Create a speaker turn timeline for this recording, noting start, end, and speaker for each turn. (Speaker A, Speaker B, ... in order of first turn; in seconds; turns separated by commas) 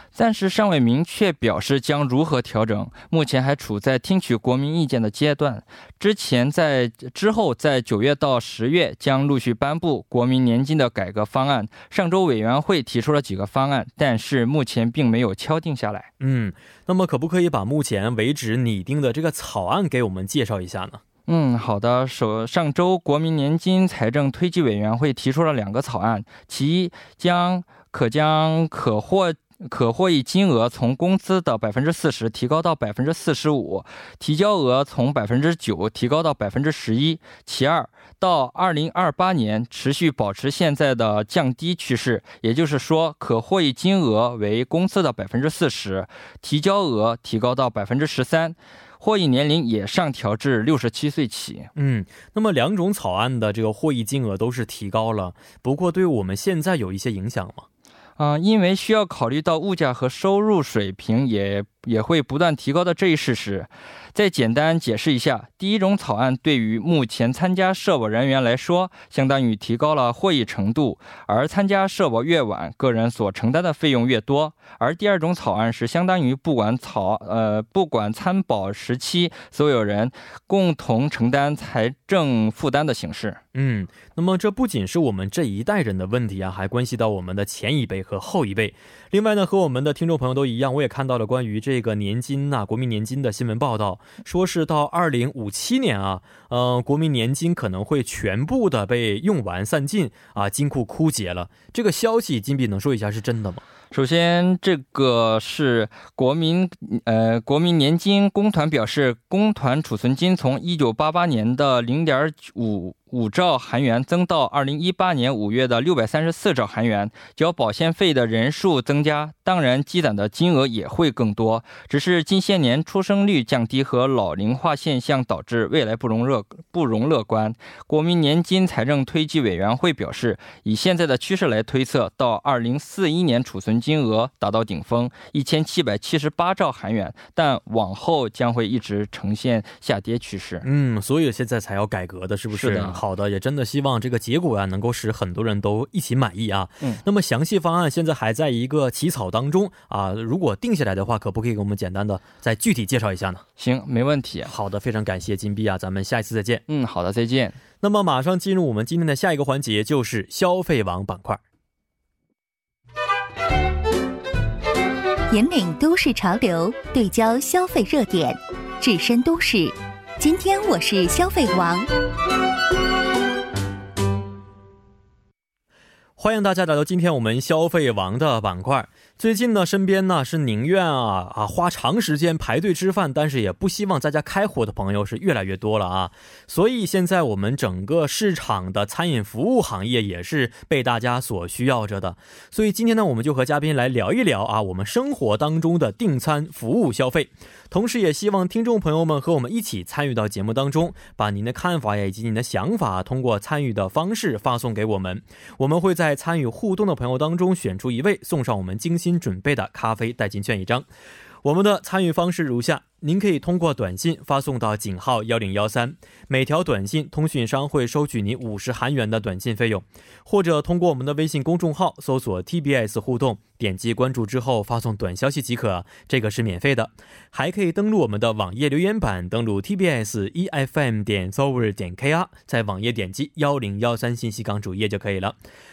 Speaker A: 0.1-16.1, Speaker B: 16.2-21.0, Speaker A: 21.3-51.7, Speaker B: 51.7-57.6, Speaker A: 58.2-83.4, Speaker B: 83.5-103.6, Speaker A: 103.9-140.6, Speaker B: 140.6-153.4, Speaker A: 142.5-143.0, Speaker A: 153.6-154.5, Speaker B: 154.4-156.6, Speaker A: 156.7-157.6, Speaker B: 157.8-161.4, Speaker C: 165.3-171.9, Speaker B: 176.2-210.9, Speaker B: 211.4-235.3